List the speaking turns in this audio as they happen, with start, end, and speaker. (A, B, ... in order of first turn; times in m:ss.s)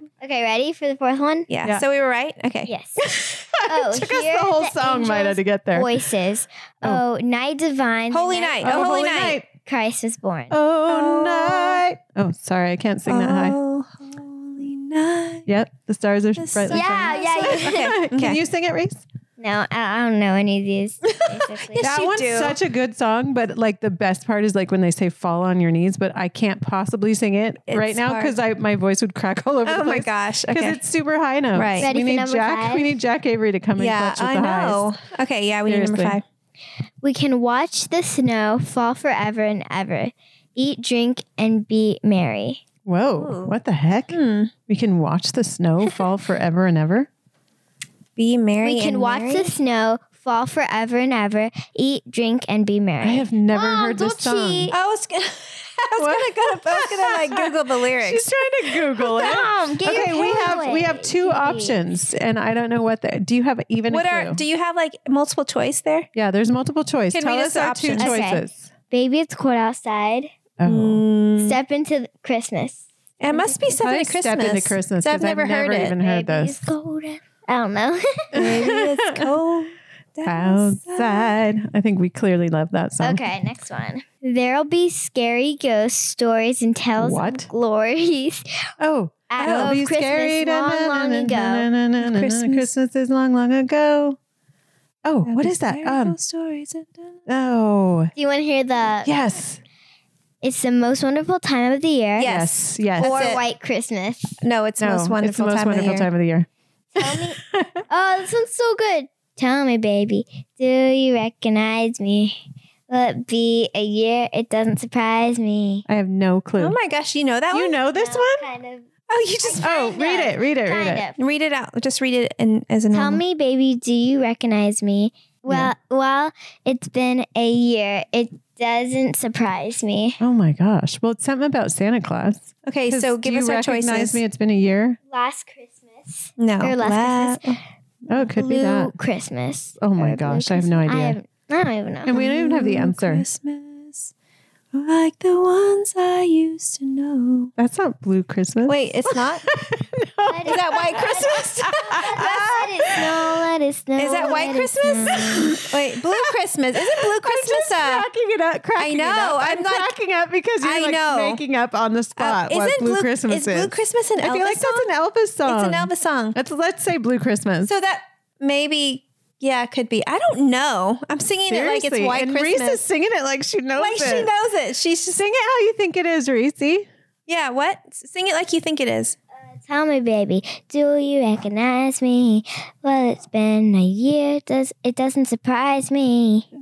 0:00.2-0:01.5 A
0:01.5-0:02.7 B
0:02.7-0:03.1 A
0:03.0-0:06.1 C
0:03.6-0:10.6 A
0:08.1-0:09.4 B
0:08.6-0:09.5 C
0:10.5-0:13.6 C
0:10.9-0:11.8 B
0:13.1-0:15.5 B
0:15.5-0:19.0 C
0:16.4-0:18.4 B
0:16.7-0:18.0 A
0:19.4-0:21.9 A
0:21.7-0:22.6 B
0:21.8-0:34.9 C
0:27.7-0:28.4 B
0:29.7-0:30.8 B
0:31.6-0:31.9 B
0:31.8-0:32.9 A
0:33.8-0:36.2 B
0:35.7-0:36.2 C
0:37.0-0:42.6 A
0:42.8-0:44.2 C
0:43.2-0:43.5 B
0:44.1-0:44.5 B
0:44.7-0:47.1 C
0:48.2-0:49.5 B
0:48.6-0:54.7 A
0:53.0-0:54.7 C
0:54.7-0:58.3 B
0:56.0-1:04.4 C
0:59.0-0:59.8 B
0:59.2-1:02.0 A
1:03.9-1:06.1 B
1:06.2-1:08.6 C
1:07.1-1:08.2 B
1:08.0-1:10.3 A
1:10.6-1:11.0 C
1:10.6-1:11.6 B
1:11.4-1:13.7 A
1:13.2-1:16.0 B
1:13.8-1:16.6 C
1:16.0-1:18.4 A
1:18.3-1:21.3 B
1:18.3-1:19.3 C
1:20.3-1:23.2 C
1:23.0-1:28.5 A
1:27.0-1:27.5 C
1:28.8-1:34.2 C
1:29.3-1:31.7 A
1:29.4-1:29.8 B
1:32.0-1:32.7 B
1:35.0-1:36.1 C
1:35.2-1:37.2 B
1:37.3-1:38.1 C
1:38.2-1:39.1 A
1:39.0-1:39.6 C
1:40.4-1:42.3 A
1:42.2-1:43.4 B
1:42.2-1:43.3 C
1:42.9-1:44.4 A
1:44.4-1:46.1 B
1:44.8-1:46.5 C
1:47.0-1:55.8 A
1:47.0-1:47.8 C
1:55.9-1:56.8 C
1:56.6-1:57.8 B
1:57.5-1:58.5 C
1:57.9-1:58.9 A
1:59.1-1:59.7 B
1:59.4-2:01.2 A
1:59.6-2:01.0 C
2:01.2-2:03.2 B
2:02.9-2:10.2 A
2:10.2-2:15.0 C
2:12.7-2:14.2 B
2:15.1-2:17.6 A
2:16.4-2:17.6 B
2:18.1-2:18.9 C
2:18.2-2:22.2 A
2:19.8-2:21.2 C
2:22.0-2:23.2 C
2:22.1-2:24.1 B
2:24.7-2:27.5 B
2:27.6-2:33.4 C
2:28.7-2:29.5 B
2:30.3-2:35.6 A
2:30.5-2:32.6 B
2:34.0-2:38.1 B
2:35.1-2:47.7 C
2:38.8-2:39.9 B
2:40.6-2:41.4 B
2:42.2-2:44.9 B
2:45.5-2:46.4 B
2:47.7-2:52.8 B
2:51.5-2:54.3 C
2:53.8-2:55.0 B
2:55.0-2:56.9 C
2:57.3-2:59.2 B
2:59.5-3:06.5 A